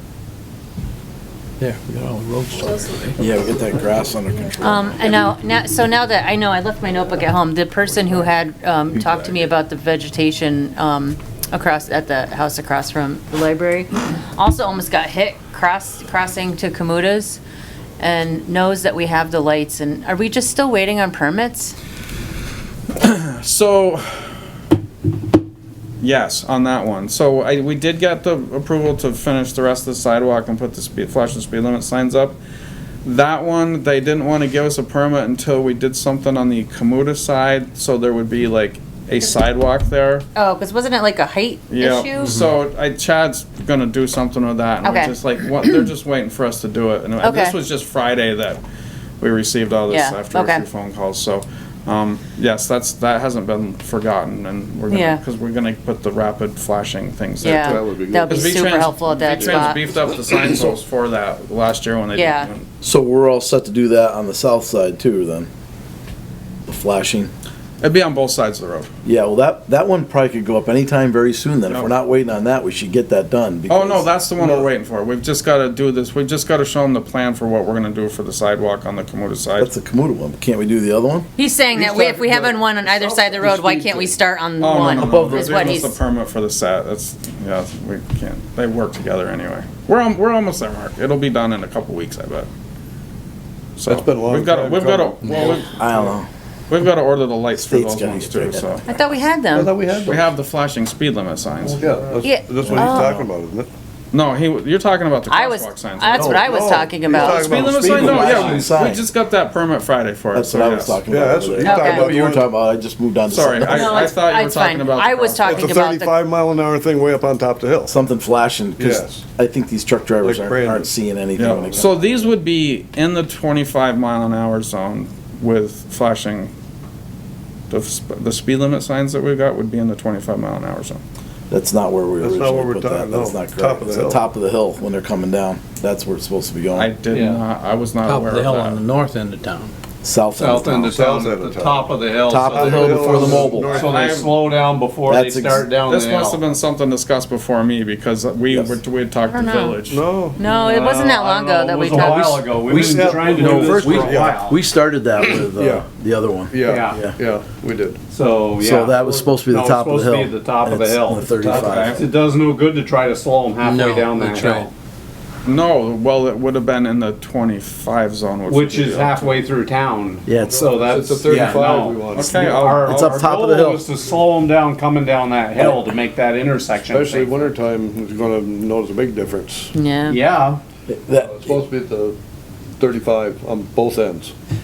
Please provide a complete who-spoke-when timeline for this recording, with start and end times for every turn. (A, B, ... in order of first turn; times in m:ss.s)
0:01.6-0:03.2 A
0:03.1-0:05.0 B
0:04.6-0:17.4 C
0:18.0-0:21.8 C
0:23.0-0:24.3 D
0:26.0-0:32.4 D
0:33.0-0:40.3 D
0:40.4-0:42.4 C
0:41.7-0:48.6 D
0:44.8-0:45.9 C
0:47.2-0:47.6 C
0:49.2-1:02.7 D
0:49.9-0:50.7 C
0:54.9-0:55.2 C
0:57.4-0:59.9 C
0:57.5-0:58.7 E
0:59.4-0:59.7 E
1:02.1-1:02.5 C
1:02.8-1:05.5 B
1:06.7-1:07.3 B
1:07.8-1:08.9 D
1:09.0-1:14.7 B
1:13.7-1:19.7 D
1:19.6-1:21.3 B
1:21.4-1:26.0 C
1:24.6-1:32.5 D
1:24.9-1:25.7 A
1:33.8-1:35.8 D
1:33.8-1:35.6 E
1:35.8-1:36.3 B
1:36.7-1:38.8 D
1:37.5-1:38.8 B
1:38.9-1:39.9 C
1:39.5-1:40.3 E
1:40.0-1:41.9 D
1:41.6-1:43.7 E
1:42.2-1:43.2 C
1:42.6-1:43.3 B
1:44.1-1:46.4 D
1:45.3-1:48.0 C
1:46.1-1:46.9 B
1:46.4-1:48.7 E
1:47.2-1:51.1 D
1:47.8-1:49.0 B
1:50.3-1:54.2 B
1:51.1-1:52.5 E
1:51.6-1:52.2 C
1:53.3-1:55.8 D
1:53.7-1:56.2 C
1:55.4-1:58.0 E
1:57.9-2:02.0 B
1:58.8-1:59.2 E
2:00.2-2:00.9 E
2:01.4-2:06.5 D
2:01.5-2:01.8 E
2:07.7-2:11.0 D
2:11.5-2:16.9 B
2:12.2-2:14.2 E
2:16.7-2:18.8 D
2:17.1-2:17.4 F
2:18.0-2:19.7 A
2:20.0-2:20.9 B
2:20.4-2:26.5 F
2:20.9-2:24.2 E
2:22.3-2:23.9 B
2:23.8-2:24.4 D
2:25.1-2:25.7 B
2:25.8-2:30.1 D
2:28.5-2:28.8 B
2:29.3-2:29.8 C
2:29.9-2:30.4 E
2:30.4-2:32.5 C
2:30.4-2:34.6 F
2:32.6-2:37.2 B
2:32.7-2:34.4 E
2:35.6-2:35.9 E
2:36.5-2:38.0 E
2:36.6-2:37.0 F
2:38.1-2:44.7 F
2:38.6-2:42.0 B
2:41.5-2:42.1 D
2:43.6-2:44.7 A
2:45.4-2:49.4 D
2:48.5-2:57.3 F
2:50.3-2:50.8 B
2:50.6-2:52.8 E
2:52.1-2:53.1 D
2:52.8-2:53.9 B
2:56.9-2:59.7 E
2:59.8-3:00.2 C
3:00.1-3:00.6 F
3:00.9-3:01.6 B
3:01.2-3:02.2 E
3:02.8-3:04.3 E